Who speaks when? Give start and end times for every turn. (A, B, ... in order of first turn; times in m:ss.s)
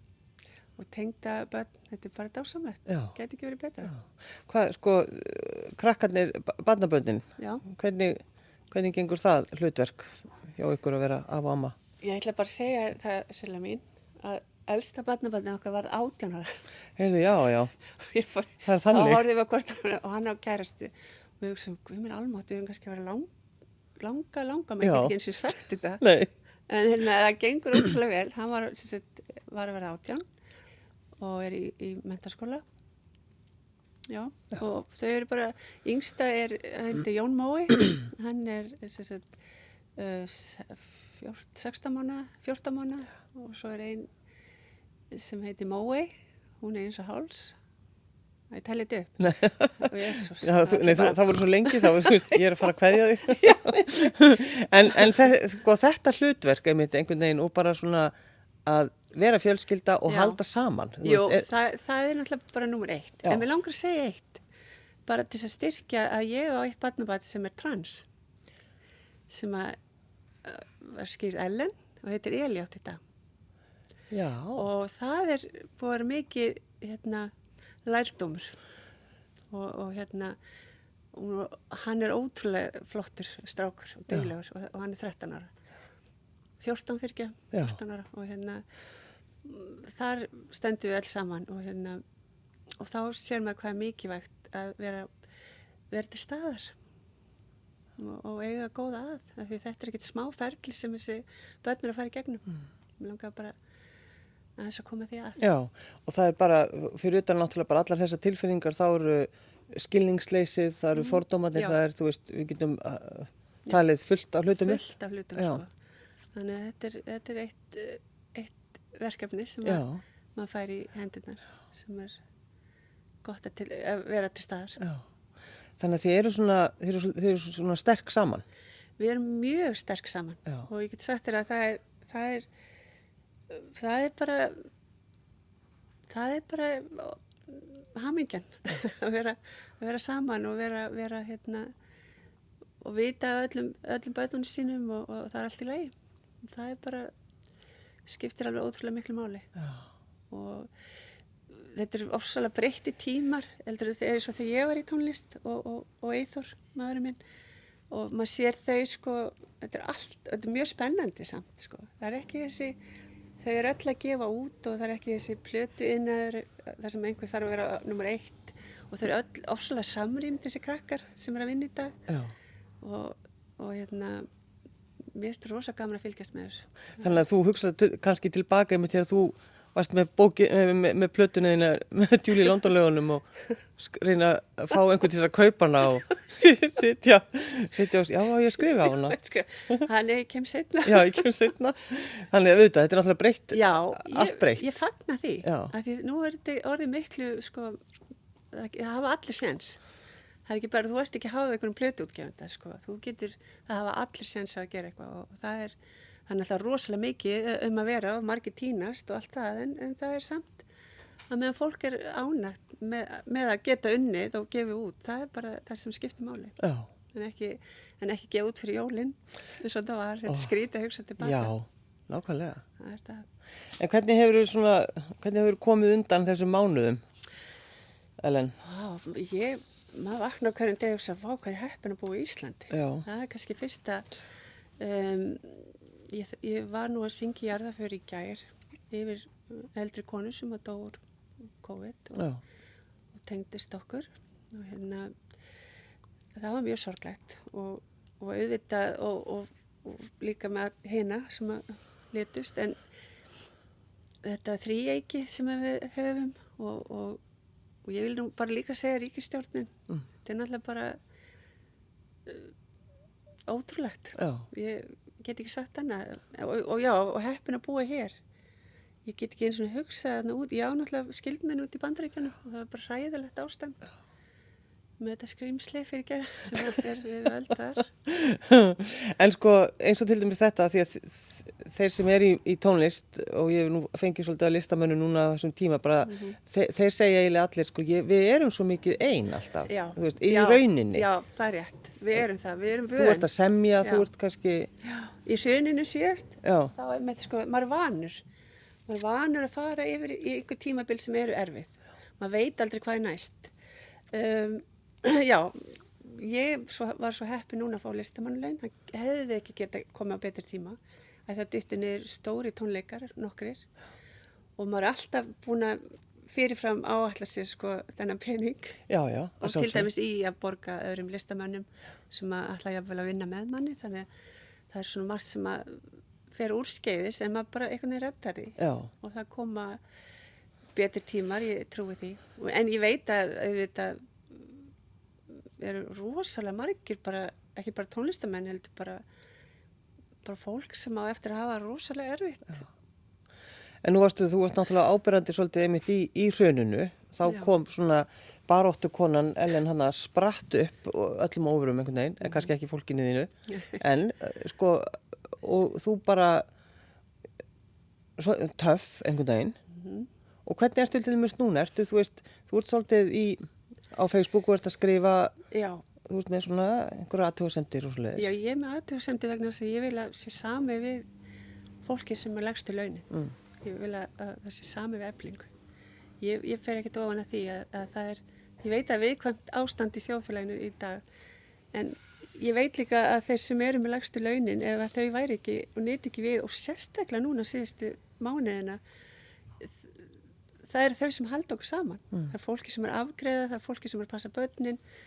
0:00.8-0:03.9 A
0:02.9-0:03.1 B
0:03.9-0:11.8 B
0:07.4-0:07.6 A
0:12.0-0:16.6 A
0:17.0-0:17.7 B
0:18.0-0:23.3 A
0:18.6-0:19.2 B
0:24.0-0:26.0 A
0:24.8-0:25.2 B
0:26.0-0:26.3 B
0:26.7-0:30.2 A
0:31.2-0:32.6 A
0:34.1-0:39.3 A
0:40.0-0:44.1 A
0:45.1-0:47.6 A
0:48.5-0:52.7 A
0:49.2-0:58.1 B
0:53.2-0:54.2 A
0:58.6-1:01.5 B
1:00.1-1:00.4 A
1:01.0-1:04.4 A
1:05.0-1:08.0 A
1:09.3-1:09.8 A
1:10.4-1:13.0 A
1:14.1-1:14.7 B
1:14.6-1:17.3 A
1:17.8-1:18.6 A
1:19.5-1:20.4 A
1:21.1-1:25.5 A
1:26.6-1:28.6 A
1:27.5-1:27.8 B
1:29.4-1:32.0 A
1:32.8-1:35.1 A
1:35.9-1:36.7 A
1:38.0-1:43.6 A
1:44.6-1:45.4 A
1:45.4-1:54.8 B
1:51.0-1:51.8 A
1:54.5-1:55.7 A
1:55.4-1:55.6 B
1:56.3-2:02.2 A
1:59.6-2:00.0 B
2:03.2-2:04.8 A
2:04.8-2:05.0 B
2:05.8-2:08.4 B
2:09.0-2:12.5 A
2:13.5-2:14.7 A
2:16.1-2:21.7 A
2:22.8-2:27.1 A
2:28.0-2:29.5 A
2:29.6-2:29.8 B
2:30.3-2:30.7 A
2:31.5-2:37.2 A
2:37.9-2:42.8 A
2:43.4-2:52.0 A
2:52.1-2:52.3 B
2:52.8-2:54.3 A
2:55.1-2:57.0 A
2:57.0-3:03.2 B
3:03.8-3:09.2 B
3:09.0-3:11.3 A
3:10.8-3:14.6 B
3:13.5-3:17.8 A
3:15.4-3:15.7 B
3:18.5-3:19.8 A
3:20.4-3:25.8 A
3:26.3-3:30.7 A
3:31.3-3:36.6 A
3:36.6-3:36.9 B
3:37.1-3:41.5 A
3:41.2-3:42.6 B
3:42.8-3:43.3 A
3:43.8-3:47.0 B
3:48.2-3:48.6 B
3:48.6-3:54.1 A
3:52.7-3:53.0 B
3:54.8-4:01.0 A
4:01.6-4:02.3 A
4:03.2-4:05.2 A
4:06.3-4:12.8 A
4:14.2-4:17.2 A
4:17.8-4:21.0 A
4:22.2-4:22.5 A
4:23.5-4:28.2 A
4:24.2-4:24.4 B
4:29.0-4:33.8 A
4:35.0-4:37.9 A
4:38.0-4:51.1 B
4:46.0-4:46.4 A
4:49.7-4:53.3 A
4:52.9-4:54.7 B
4:53.8-4:54.1 A
4:54.8-4:58.2 A
4:56.4-4:56.7 B
4:58.9-5:03.5 A
5:04.1-5:13.6 A
5:14.6-5:18.8 A
5:18.9-5:19.9 B
5:19.4-5:24.1 A
5:24.7-5:29.8 A
5:28.6-5:28.9 B
5:30.7-5:34.7 A
5:35.6-5:39.0 A
5:40.2-5:42.7 A
5:43.8-5:56.5 B
5:47.2-5:47.5 A
5:58.2-5:59.6 B
5:59.7-6:00.1 A
6:00.4-6:05.4 B
6:05.5-6:05.8 A
6:06.0-6:08.3 B
6:08.2-6:11.0 A
6:11.8-6:15.5 A
6:16.2-6:21.0 A
6:21.7-6:28.8 A
6:30.6-6:34.8 A